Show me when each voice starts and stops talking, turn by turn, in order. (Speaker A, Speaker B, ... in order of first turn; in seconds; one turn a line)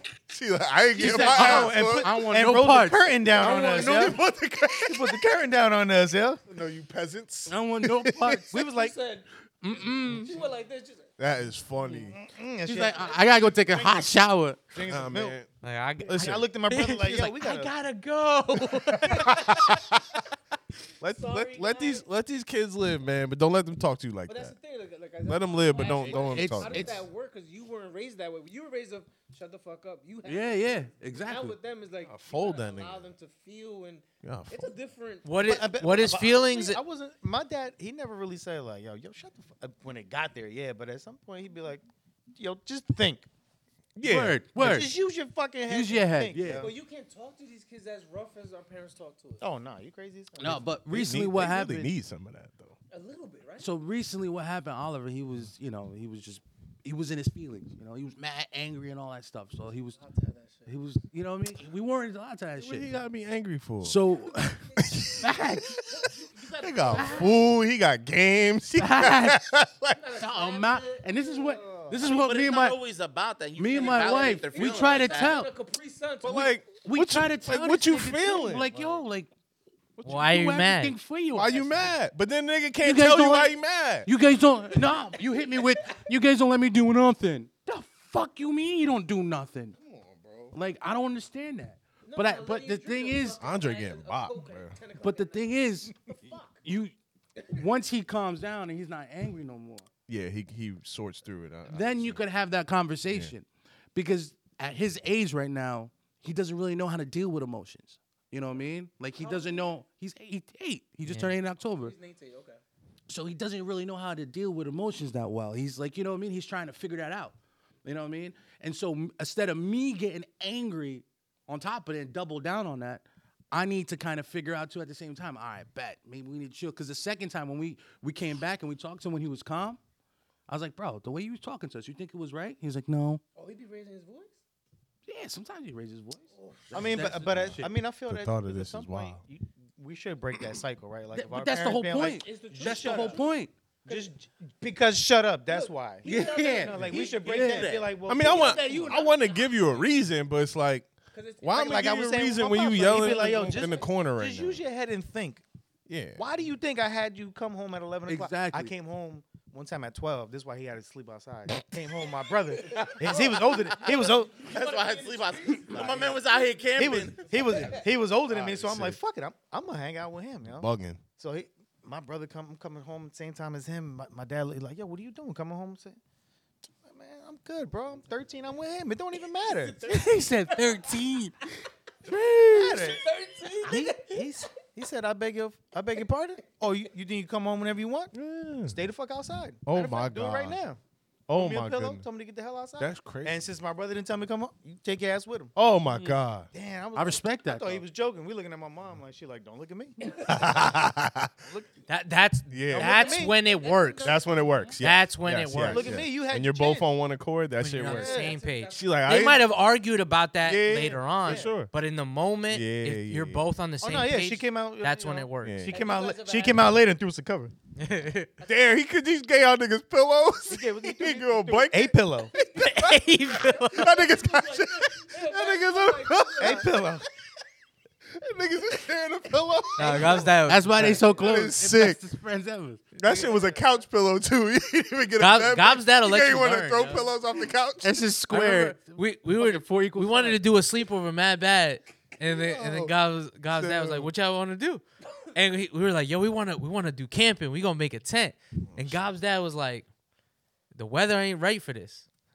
Speaker A: 0.3-2.2
Speaker B: 0.9-4.2
Speaker C: 0.9-4.1
Speaker A: 3.4-5.2
Speaker B: 4.8-6.4
Speaker A: 6.5-8.4
Speaker C: 7.5-8.5
Speaker B: 8.5-8.9
Speaker D: 8.6-11.1
Speaker C: 9.6-10.3
Speaker A: 11.2-12.1
Speaker B: 11.9-15.4
Speaker C: 12.6-14.7
Speaker A: 14.8-15.5
Speaker E: 15.6-19.5
Speaker A: 16.1-16.4
Speaker B: 16.1-17.7
Speaker A: 19.0-19.8
Speaker D: 19.1-19.7
Speaker A: 21.0-24.5
Speaker D: 21.0-22.1
Speaker D: 24.3-35.4
Speaker A: 25.2-27.0
Speaker C: 26.2-27.0
Speaker C: 30.2-31.6
Speaker A: 32.1-33.1
Speaker A: 34.2-34.7
Speaker E: 35.2-36.8
Speaker B: 35.4-43.3
Speaker A: 44.0-44.5
Speaker C: 44.0-44.9
Speaker B: 44.5-46.7
Speaker C: 45.7-46.7
Speaker D: 46.5-49.4
Speaker B: 49.4-50.7
Speaker C: 50.4-51.9
Speaker A: 50.9-52.8
Speaker D: 52.9-53.7
Speaker C: 53.6-60.0
Speaker D: 59.6-60.8
Speaker C: 60.6-62.9
Speaker A: 62.6-64.0
Speaker C: 63.8-64.7
Speaker D: 64.7-67.5
Speaker A: 64.8-65.8
Speaker C: 65.2-65.8
Speaker A: 66.6-70.0
Speaker C: 66.9-67.3
Speaker C: 68.8-69.4
Speaker D: 69.9-71.9
Speaker C: 70.2-72.8
Speaker B: 71.6-72.0
Speaker F: 72.0-75.4
Speaker C: 73.6-75.5
Speaker D: 73.7-76.7
Speaker A: 76.2-78.9
Speaker C: 76.8-79.3
Speaker A: 80.0-80.3
Speaker E: 80.0-81.0
Speaker C: 80.0-82.0
Speaker A: 81.3-84.1
Speaker C: 82.8-89.8
Speaker D: 84.7-86.0
Speaker A: 89.8-90.5
Speaker C: 90.5-93.4
Speaker D: 92.0-96.7
Speaker A: 93.4-94.8
Speaker C: 95.0-96.0
Speaker C: 96.6-96.9
Speaker D: 97.4-97.6
Speaker C: 97.5-99.9
Speaker A: 100.1-102.2
Speaker C: 101.7-111.9
Speaker D: 109.1-109.8
Speaker E: 111.1-111.3
Speaker D: 111.6-112.6
Speaker C: 113.1-129.8
Speaker C: 130.5-133.2
Speaker D: 133.3-134.4
Speaker C: 135.1-137.7
Speaker D: 136.3-137.1
Speaker B: 136.7-143.3
Speaker A: 137.3-139.2
Speaker C: 141.1-143.5
Speaker D: 142.0-144.1
Speaker B: 143.8-148.9
Speaker D: 145.5-147.2
Speaker C: 146.0-147.7
Speaker F: 146.9-148.3
Speaker A: 148.1-154.6
Speaker D: 148.1-149.9
Speaker D: 151.1-151.9
Speaker B: 151.5-155.4
Speaker D: 152.9-153.9
Speaker A: 155.9-156.2
Speaker B: 156.2-164.5
Speaker C: 158.1-158.7
Speaker F: 162.7-167.7
Speaker D: 162.8-167.8
Speaker B: 165.7-166.2
Speaker B: 166.7-176.0
Speaker A: 168.3-169.0
Speaker A: 170.5-171.0
Speaker B: 176.8-179.9
Speaker D: 179.4-181.0
Speaker C: 179.9-181.4
Speaker C: 182.1-182.8
Speaker B: 182.4-183.0
Speaker D: 182.5-184.2
Speaker B: 183.7-188.1
Speaker C: 183.7-184.1
Speaker A: 188.1-188.8
Speaker B: 188.7-190.8
Speaker A: 189.6-190.6
Speaker A: 191.3-192.1
Speaker B: 191.3-195.5
Speaker A: 192.8-193.5
Speaker A: 195.6-196.5
Speaker C: 195.9-196.2
Speaker B: 196.5-200.6
Speaker C: 196.9-197.8
Speaker D: 200.0-200.7
Speaker A: 200.2-201.3
Speaker B: 201.4-201.8
Speaker E: 201.9-204.2
Speaker A: 202.5-203.1
Speaker B: 202.7-203.3
Speaker D: 202.8-204.8
Speaker A: 204.0-209.5
Speaker E: 204.8-206.0
Speaker B: 205.6-206.9
Speaker E: 207.6-215.6
Speaker B: 207.8-208.3
Speaker D: 207.9-209.4
Speaker A: 210.4-211.7
Speaker A: 212.5-213.4
Speaker B: 213.8-217.5
Speaker A: 215.4-215.8
Speaker D: 215.7-216.7
Speaker E: 217.8-218.3
Speaker D: 218.4-218.7
Speaker A: 218.4-226.9
Speaker B: 220.5-222.3
Speaker E: 222.5-224.0
Speaker D: 223.2-226.7
Speaker B: 226.4-227.0
Speaker A: 228.1-232.0
Speaker E: 229.8-231.0
Speaker B: 229.8-230.3
Speaker C: 230.4-232.9
Speaker A: 232.9-238.0
Speaker B: 233.0-233.6
Speaker D: 233.4-233.7
Speaker E: 235.2-237.1
Speaker C: 237.8-240.4
Speaker E: 238.3-249.9
Speaker A: 242.2-242.9
Speaker A: 243.5-244.1
Speaker A: 248.7-249.1
Speaker E: 250.7-252.0